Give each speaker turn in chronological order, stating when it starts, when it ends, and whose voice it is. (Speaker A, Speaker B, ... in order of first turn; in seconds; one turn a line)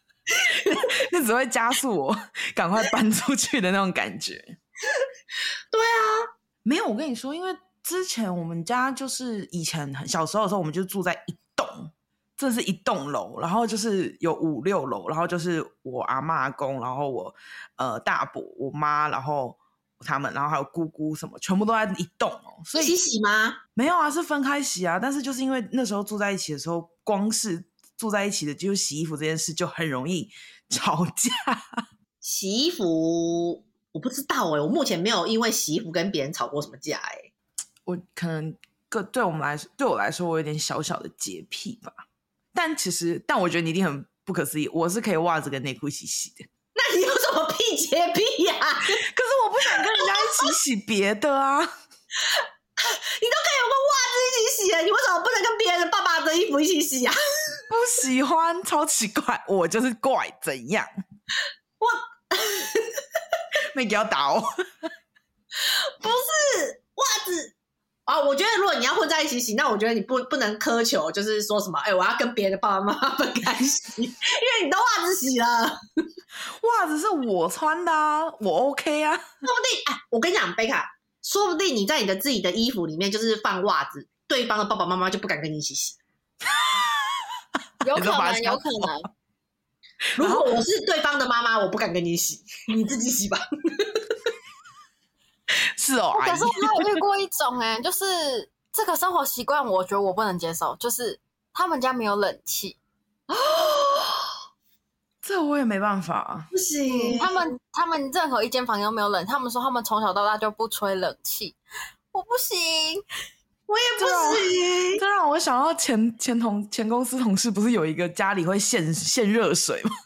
Speaker A: 0.6-4.6
Speaker B: 5.7-6.3
Speaker A: 6.7-22.9
Speaker B: 22.7-23.6
Speaker A: 23.8-31.8
Speaker B: 32.2-37.3
Speaker A: 37.9-42.0
Speaker A: 42.5-46.5
Speaker B: 46.8-49.0
Speaker A: 49.0-51.7
Speaker B: 49.8-50.5
Speaker B: 52.4-57.2
Speaker A: 57.7-60.9
Speaker B: 61.8-63.0
Speaker A: 63.7-64.9
Speaker B: 65.6-67.5
Speaker B: 68.1-75.8
Speaker A: 76.6-79.2
Speaker B: 79.4-86.0
Speaker A: 86.5-87.2
Speaker A: 87.8-89.0
Speaker C: 87.8-89.1
Speaker B: 90.2-94.0
Speaker A: 90.2-90.5
Speaker A: 95.8-97.0
Speaker C: 96.2-102.8
Speaker B: 103.3-104.3
Speaker A: 105.2-106.5
Speaker B: 106.5-107.3
Speaker C: 106.9-111.6
Speaker C: 112.1-113.0
Speaker B: 113.7-115.0
Speaker A: 114.0-119.9